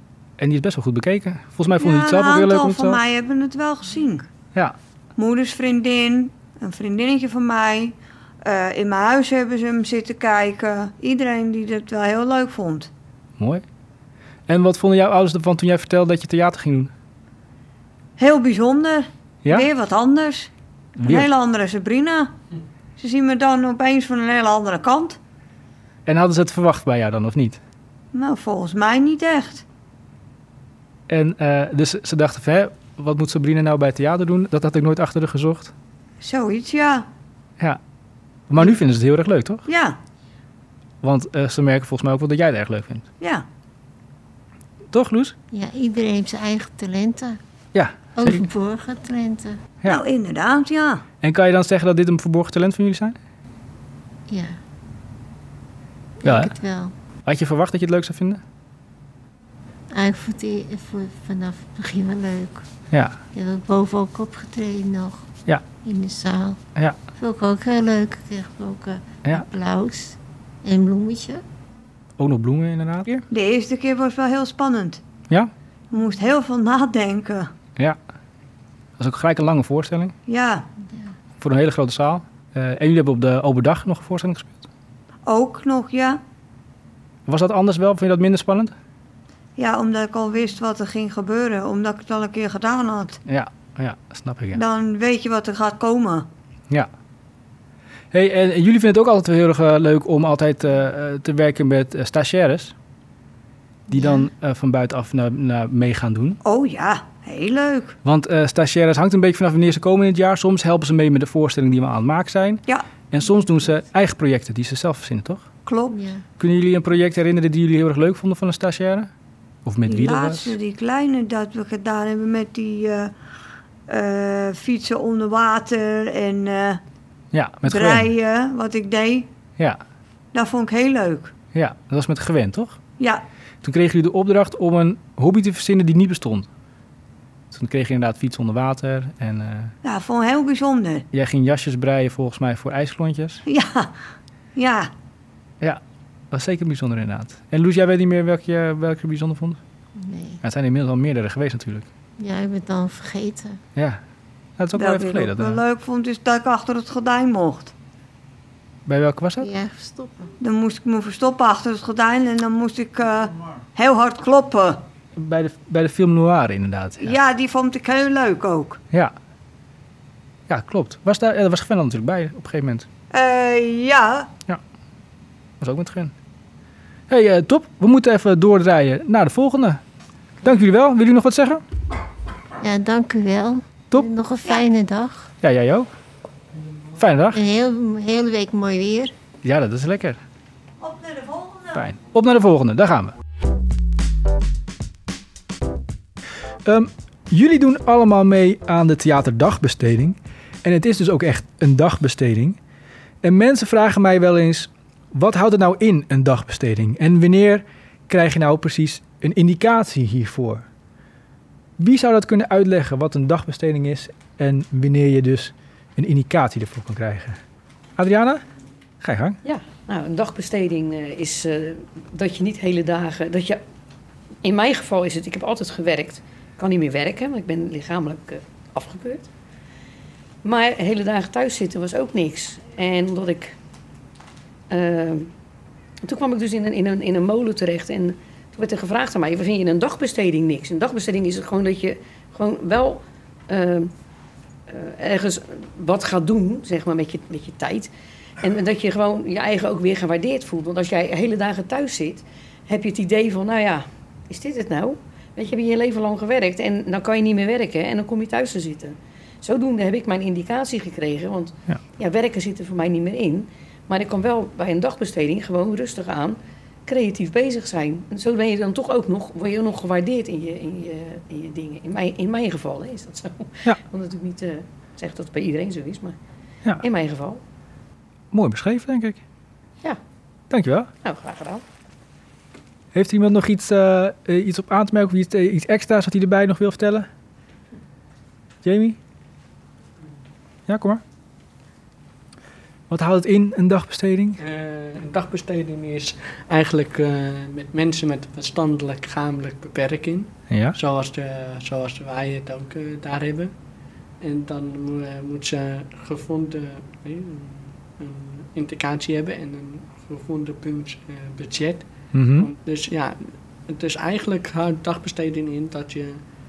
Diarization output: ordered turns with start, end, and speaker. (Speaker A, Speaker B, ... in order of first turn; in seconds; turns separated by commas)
Speaker A: 0.4-3.0, Speaker B: 1.8-4.3, Speaker B: 5.2-12.9, Speaker A: 13.4-13.7, Speaker A: 14.5-16.9, Speaker B: 18.2-20.5, Speaker A: 21.0-21.3, Speaker B: 21.1-22.3, Speaker B: 23.0-25.2, Speaker A: 26.1-27.6, Speaker B: 28.1-29.6, Speaker A: 31.1-35.7, Speaker B: 36.2-37.1, Speaker A: 38.5-39.6, Speaker B: 39.7-40.0, Speaker A: 41.0-43.1, Speaker B: 43.2-43.5, Speaker A: 44.9-45.4, Speaker C: 45.5-47.4, Speaker A: 47.7-48.4, Speaker C: 48.1-49.6, Speaker B: 49.9-51.0, Speaker A: 51.2-53.2, Speaker C: 54.3-54.6, Speaker C: 56.2-56.9, Speaker A: 56.2-56.5, Speaker A: 57.3-58.4, Speaker C: 59.9-62.7, Speaker A: 62.9-63.2, Speaker C: 63.3-66.6, Speaker C: 67.2-71.4, Speaker A: 72.2-73.2, Speaker B: 73.3-75.0, Speaker B: 75.9-77.5, Speaker A: 79.0-80.1, Speaker B: 80.3-80.7, Speaker A: 81.4-84.7, Speaker B: 85.3-86.2, Speaker A: 87.3-88.7, Speaker B: 89.6-93.2, Speaker A: 93.3-94.6, Speaker B: 94.5-96.3, Speaker A: 98.1-102.7, Speaker A: 103.9-106.4, Speaker B: 103.9-104.3, Speaker B: 106.4-108.0, Speaker A: 108.0-115.5, Speaker B: 115.7-116.0, Speaker C: 115.9-116.2, Speaker A: 116.4-119.1, Speaker A: 119.7-120.5, Speaker B: 119.9-123.1, Speaker B: 123.9-126.8, Speaker A: 127.3-128.1, Speaker B: 127.6-129.3, Speaker B: 130.3-131.3, Speaker A: 131.5-132.8, Speaker A: 133.6-136.5, Speaker A: 137.5-139.7, Speaker B: 139.8-141.1, Speaker A: 141.1-143.4, Speaker B: 143.5-143.9, Speaker B: 144.6-144.9, Speaker A: 146.3-149.6, Speaker C: 150.0-150.4, Speaker A: 150.4-151.9, Speaker C: 152.2-153.6, Speaker A: 153.8-154.0, Speaker A: 154.6-155.6, Speaker B: 154.8-157.7, Speaker A: 158.9-159.5, Speaker C: 159.4-160.3, Speaker B: 160.4-164.8, Speaker A: 165.2-167.2, Speaker B: 167.0-168.8, Speaker A: 170.5-172.9, Speaker B: 173.1-174.3, Speaker A: 175.6-176.1, Speaker A: 177.1-179.8, Speaker A: 180.4-181.6, Speaker C: 182.6-185.3, Speaker A: 185.4-185.9, Speaker A: 187.0-187.4, Speaker C: 187.3-189.1, Speaker A: 189.4-190.2, Speaker B: 190.8-191.8, Speaker A: 191.7-193.1, Speaker A: 196.7-202.6, Speaker A: 203.2-210.7, Speaker A: 211.8-217.4, Speaker A: 218.0-218.4, Speaker A: 219.0-219.4, Speaker D: 219.4-223.6, Speaker D: 224.4-229.3, Speaker D: 230.4-233.5, Speaker D: 234.7-235.3, Speaker D: 236.1-243.9, Speaker D: 244.7-247.9, Speaker D: 248.4-276.1, Speaker D: 276.8-277.4, Speaker A: 278.3-279.2, Speaker A: 280.5-280.9, Speaker D: 281.0-281.6, Speaker A: 282.9-287.1, Speaker A: 288.6-289.0, Speaker A: 290.7-291.0, Speaker A: 292.9-294.4, Speaker E: 294.4-303.5, Speaker A: 300.5-300.8, Speaker E: 304.2-311.9, Speaker A: 312.1-312.5, Speaker E: 312.4-316.2